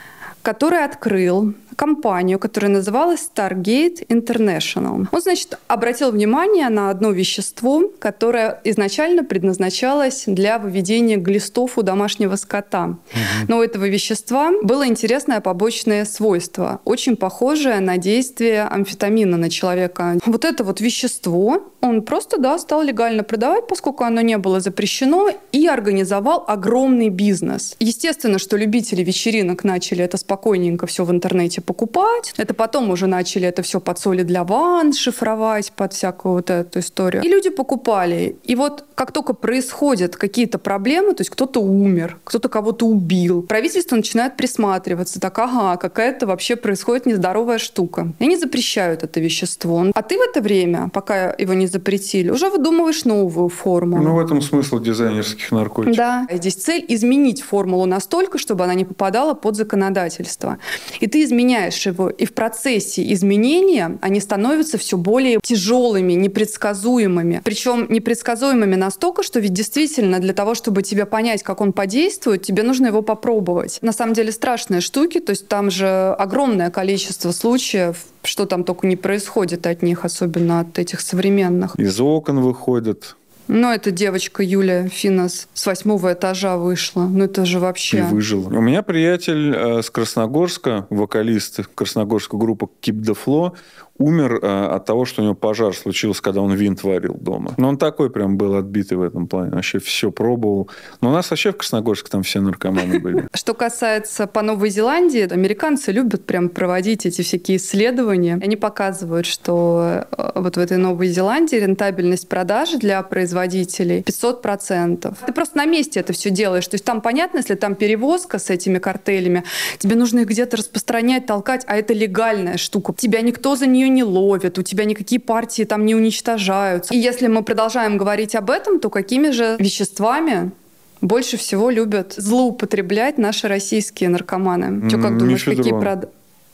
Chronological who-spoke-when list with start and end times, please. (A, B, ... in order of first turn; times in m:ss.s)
0:00.4-0:54.2 A
0:13.1-0:13.5 B
0:53.9-0:56.0 B
0:55.8-1:21.8 A
1:21.8-1:23.1 B
1:23.5-1:28.2 A
1:27.9-1:43.3 B
1:43.3-2:16.1 A
2:14.8-2:15.9 B